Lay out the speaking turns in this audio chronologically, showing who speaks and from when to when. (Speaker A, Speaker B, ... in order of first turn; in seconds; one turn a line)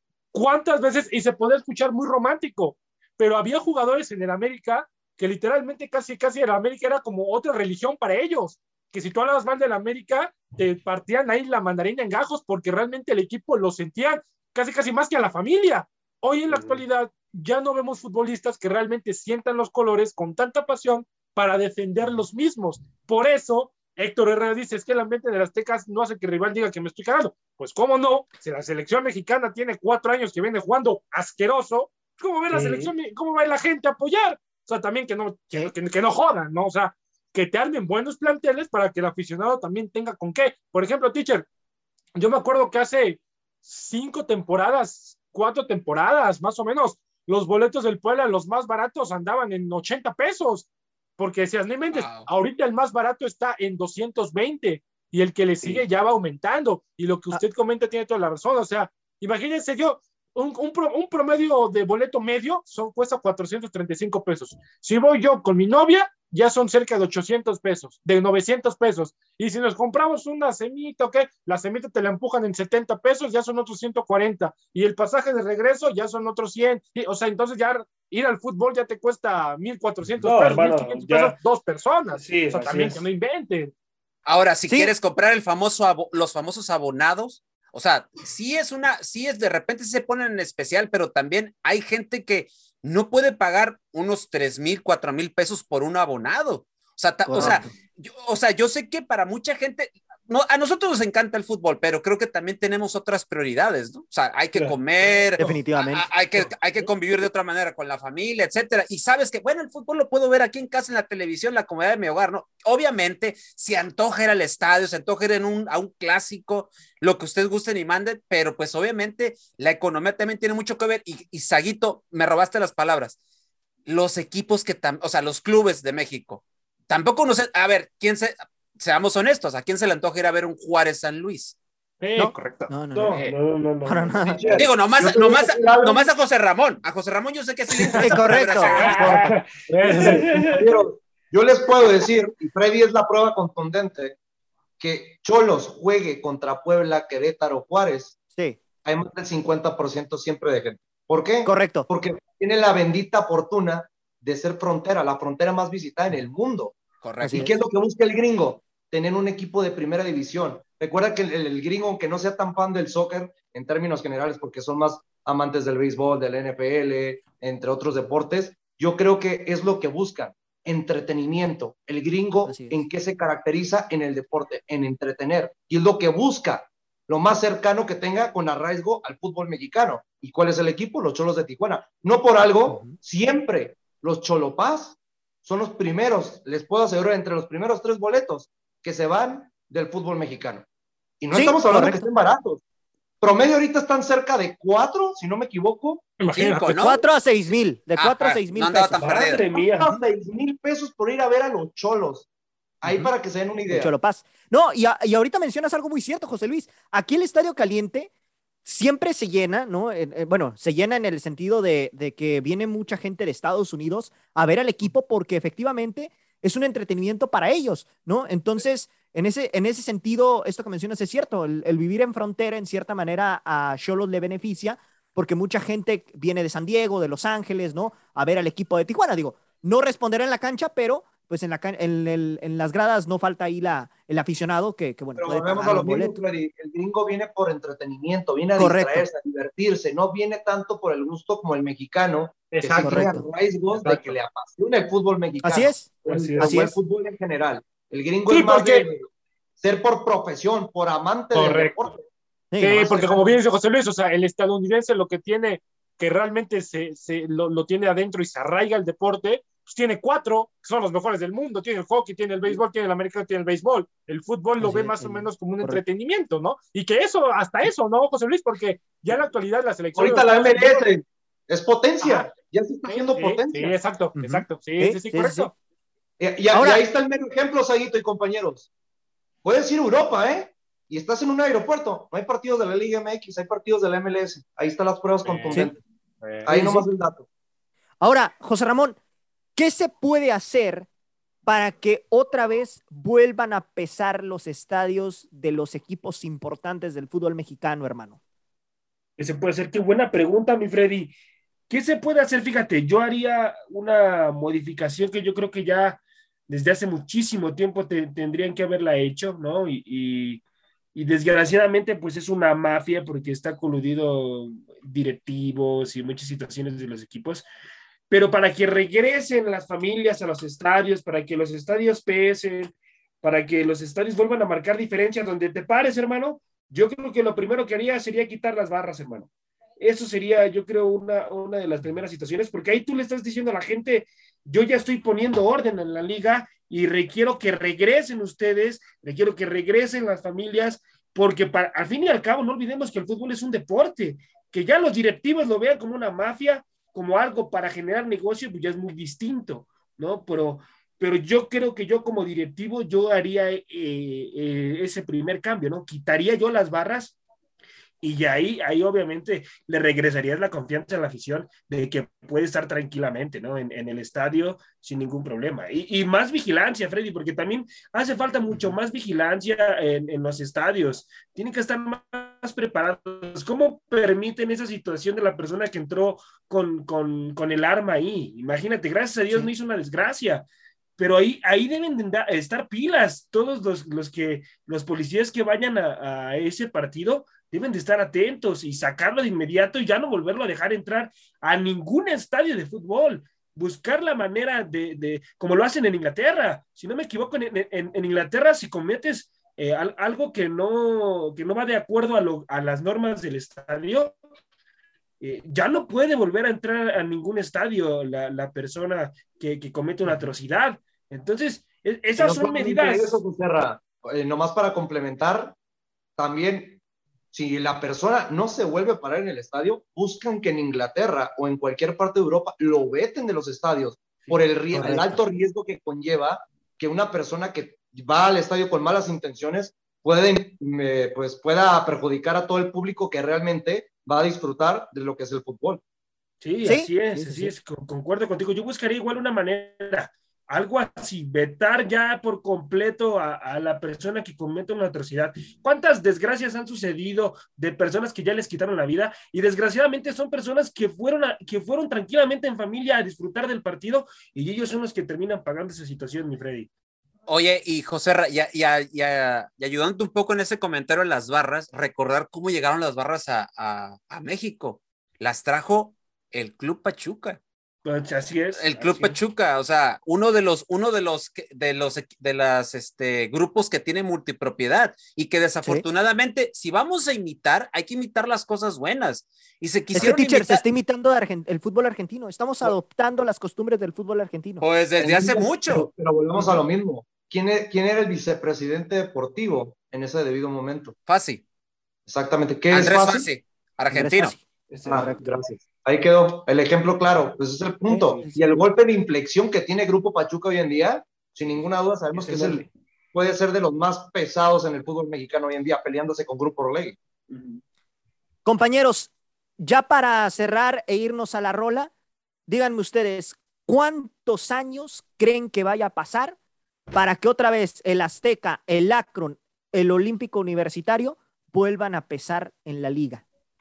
Speaker A: 0.3-41.5
Speaker B: 16.5-16.8
Speaker B: 32.5-32.9
Speaker A: 42.1-83.7
Speaker C: 51.9-52.3
Speaker B: 80.2-81.4
Speaker B: 82.2-83.0
Speaker C: 84.2-123.1
Speaker D: 84.7-84.9
Speaker D: 97.2-97.7
Speaker D: 105.4-106.1
Speaker C: 123.8-131.6
Speaker A: 132.0-133.3
Speaker D: 132.2-133.2
Speaker B: 132.9-134.7
Speaker D: 133.8-134.4
Speaker E: 134.2-136.1
Speaker C: 134.6-139.2
Speaker D: 138.0-139.1
Speaker A: 138.7-140.5
Speaker B: 138.8-140.8
Speaker E: 139.9-144.2
Speaker E: 144.8-148.2
Speaker E: 148.8-190.6
Speaker D: 151.4-151.9
Speaker C: 157.0-157.5
Speaker D: 157.2-157.5
Speaker D: 172.4-172.8
Speaker D: 182.7-182.9
Speaker E: 191.2-192.6
Speaker D: 191.3-192.1
Speaker E: 193.2-196.0
Speaker A: 196.2-196.9
Speaker C: 196.3-197.0
Speaker D: 196.8-199.1
Speaker C: 198.0-199.4
Speaker B: 199.0-199.9
Speaker E: 199.5-202.3
Speaker E: 202.8-203.9
Speaker D: 202.8-203.1
Speaker D: 203.7-208.1
Speaker D: 208.6-236.2
Speaker E: 235.2-249.1
Speaker D: 238.6-239.1
Speaker A: 242.6-243.0
Speaker B: 242.6-243.0
Speaker D: 242.8-243.2
Speaker A: 243.8-244.1
Speaker D: 245.4-246.8
Speaker B: 246.1-246.6
Speaker A: 248.3-248.9
Speaker E: 249.6-252.0
Speaker A: 251.3-251.9
Speaker D: 252.5-252.9
Speaker A: 252.6-270.8
Speaker E: 252.8-253.3
Speaker D: 264.6-265.8
Speaker E: 269.9-273.8
Speaker A: 272.0-272.3
Speaker A: 272.9-275.5
Speaker D: 274.1-275.5
Speaker E: 276.2-278.7
Speaker D: 276.5-276.8
Speaker E: 279.4-285.8
Speaker A: 285.3-285.6
Speaker E: 286.4-287.2
Speaker D: 286.5-286.9
Speaker D: 288.0-289.0
Speaker D: 289.5-290.9
Speaker D: 291.4-298.2
Speaker B: 299.2-301.1
Speaker B: 301.7-310.4
Speaker B: 310.9-317.4
Speaker B: 318.1-357.2
Speaker B: 358.0-404.2
Speaker B: 405.2-413.2
Speaker E: 412.1-415.5
Speaker E: 416.2-416.8
Speaker E: 417.3-435.8
Speaker D: 424.7-425.2
Speaker B: 436.4-456.7
Speaker D: 436.6-437.5
Speaker C: 457.3-467.4
Speaker B: 467.8-469.2
Speaker C: 468.6-480.6
Speaker D: 479.9-484.6
Speaker C: 484.6-485.9
Speaker E: 485.0-490.9
Speaker C: 491.1-491.4
Speaker E: 492.1-493.3
Speaker C: 492.7-494.3
Speaker D: 493.9-494.4
Speaker B: 494.7-495.3
Speaker E: 494.9-507.0
Speaker D: 497.9-498.6
Speaker B: 502.1-502.7
Speaker B: 507.3-507.6
Speaker D: 508.4-511.9
Speaker D: 512.5-516.4
Speaker D: 516.9-523.2